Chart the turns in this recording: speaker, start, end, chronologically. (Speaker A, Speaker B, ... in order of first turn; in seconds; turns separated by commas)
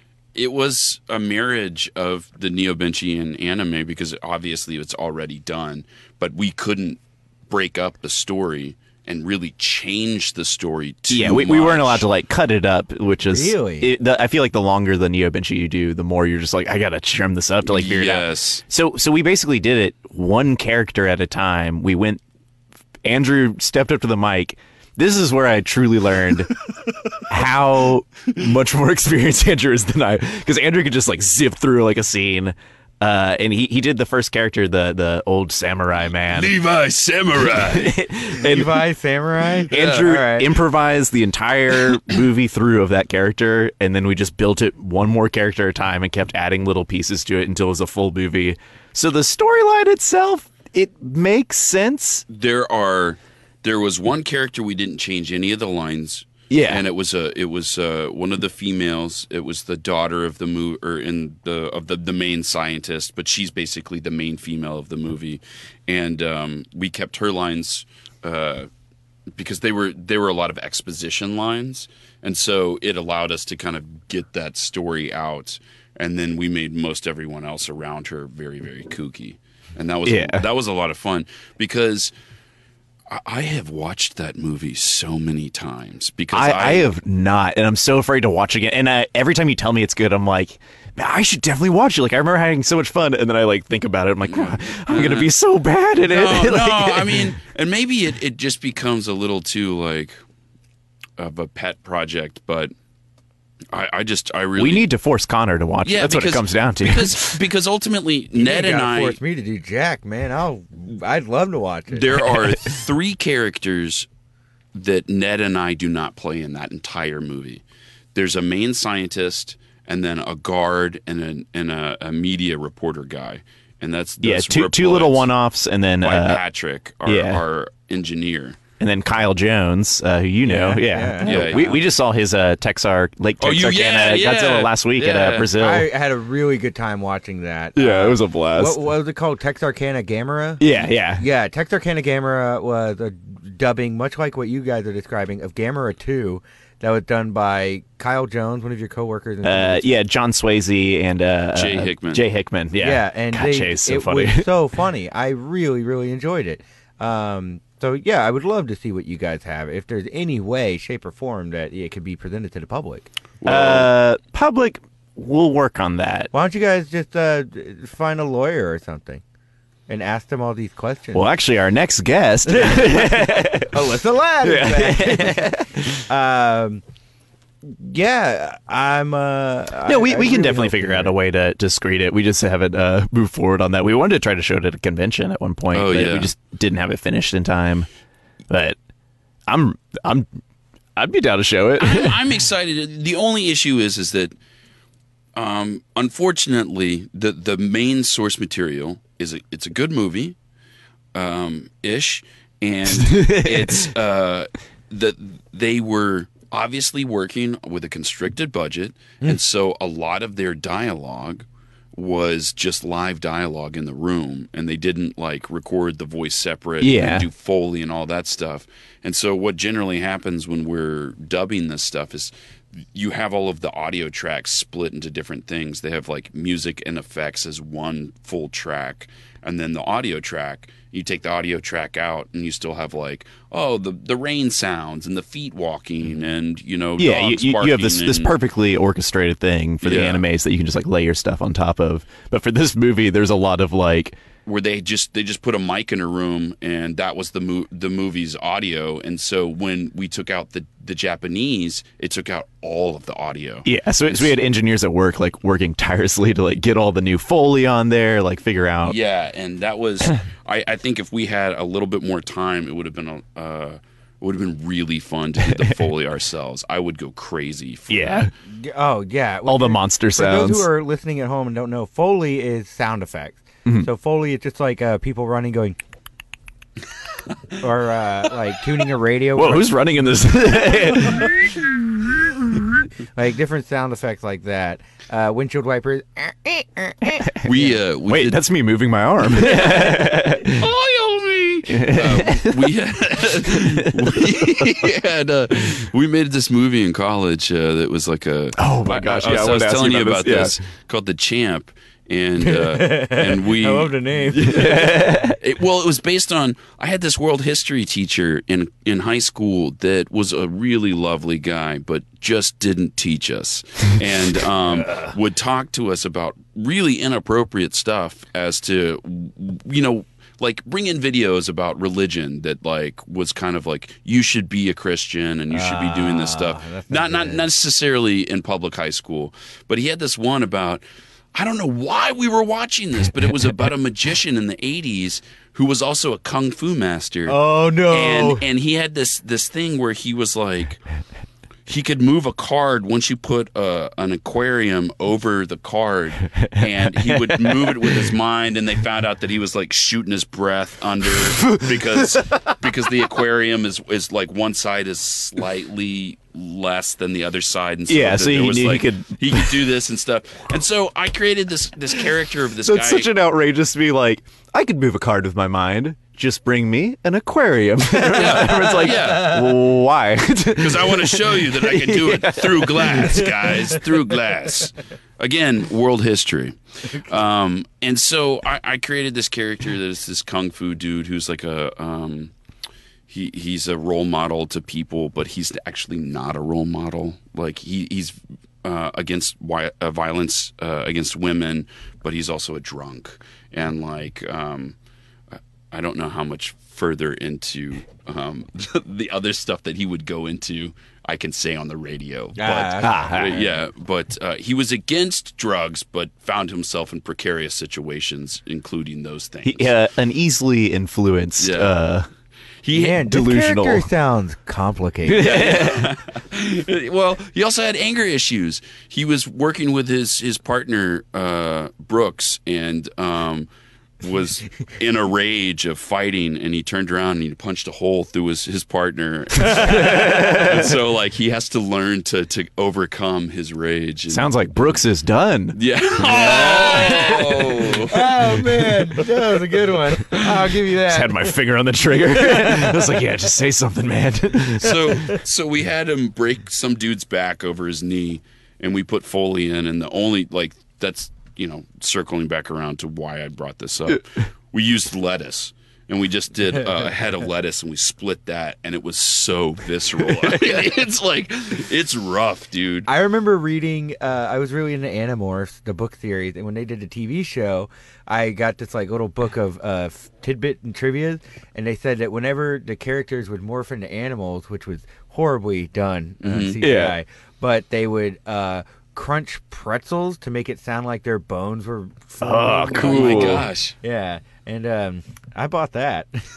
Speaker A: 0.3-12.0, Speaker B: 11.1-22.2, Speaker C: 13.3-13.9, Speaker A: 17.7-18.6, Speaker B: 23.1-26.5, Speaker B: 27.3-36.5, Speaker A: 36.3-38.0, Speaker B: 37.5-38.9, Speaker C: 38.4-40.5, Speaker B: 39.7-52.2, Speaker A: 39.7-40.1, Speaker A: 52.3-68.7, Speaker B: 56.5-56.9, Speaker A: 69.4-82.1, Speaker B: 80.1-80.5, Speaker A: 83.1-86.9, Speaker B: 86.3-97.3, Speaker A: 94.3-95.3, Speaker A: 96.0-100.2, Speaker A: 101.2-102.7, Speaker A: 103.7-104.9, Speaker B: 104.6-107.4, Speaker A: 105.8-109.2, Speaker C: 108.3-112.2, Speaker A: 111.9-114.1, Speaker A: 114.7-117.6, Speaker A: 118.2-125.3, Speaker B: 124.2-126.4, Speaker A: 126.0-128.6, Speaker B: 127.0-127.4, Speaker B: 128.8-135.9, Speaker C: 130.4-131.8, Speaker A: 131.2-131.9, Speaker A: 133.4-135.5, Speaker C: 135.6-149.9, Speaker B: 137.8-138.8, Speaker B: 140.6-141.2, Speaker B: 149.4-154.5, Speaker A: 151.6-152.2, Speaker C: 152.8-163.1, Speaker A: 163.4-163.9, Speaker B: 163.4-166.3, Speaker C: 166.3-169.2, Speaker C: 169.9-171.3, Speaker B: 171.1-173.8, Speaker C: 172.5-176.8, Speaker B: 174.4-176.0, Speaker C: 177.6-181.1, Speaker B: 179.8-187.9, Speaker A: 185.7-186.3, Speaker B: 188.5-188.8, Speaker B: 189.5-190.3, Speaker B: 191.0-192.2, Speaker A: 191.8-194.3, Speaker A: 195.4-200.4, Speaker A: 201.1-211.4, Speaker B: 202.9-203.9, Speaker A: 211.9-222.3, Speaker B: 216.8-217.3, Speaker A: 222.9-238.3, Speaker B: 237.0-244.2, Speaker A: 239.8-240.2, Speaker A: 244.5-254.3, Speaker B: 253.7-259.0, Speaker A: 258.9-268.3, Speaker B: 265.5-265.7, Speaker B: 267.9-268.3, Speaker C: 268.6-275.8, Speaker B: 269.5-270.7, Speaker C: 277.6-279.8, Speaker B: 279.4-282.8, Speaker C: 283.1-287.7, Speaker A: 287.4-288.4, Speaker B: 288.1-290.7, Speaker A: 289.3-303.9, Speaker B: 291.7-292.7, Speaker B: 293.4-294.8, Speaker B: 298.6-300.6, Speaker C: 302.4-304.9, Speaker B: 304.3-305.4, Speaker A: 305.4-330.8, Speaker B: 314.7-315.1, Speaker C: 325.5-327.4, Speaker A: 331.3-340.8, Speaker C: 337.3-338.4, Speaker A: 341.7-363.1, Speaker B: 346.6-348.1, Speaker B: 351.4-352.5, Speaker B: 357.9-359.6, Speaker B: 362.6-373.3, Speaker A: 368.1-369.6, Speaker A: 370.6-382.3, Speaker A: 383.1-394.8, Speaker A: 395.7-409.7, Speaker C: 402.4-403.5, Speaker B: 402.8-403.4, Speaker B: 409.4-412.1, Speaker A: 411.4-411.7, Speaker A: 412.6-413.0, Speaker C: 412.7-415.4, Speaker B: 413.0-413.9, Speaker B: 415.1-415.9, Speaker A: 415.2-423.5, Speaker A: 424.0-434.8, Speaker B: 429.4-430.8, Speaker B: 434.1-437.6, Speaker A: 435.6-438.2, Speaker C: 436.0-441.3, Speaker B: 440.9-445.1, Speaker C: 442.2-442.8, Speaker A: 444.6-462.9, Speaker C: 462.9-486.1, Speaker A: 476.2-476.6, Speaker B: 476.6-477.0, Speaker B: 482.2-483.5, Speaker A: 482.7-483.8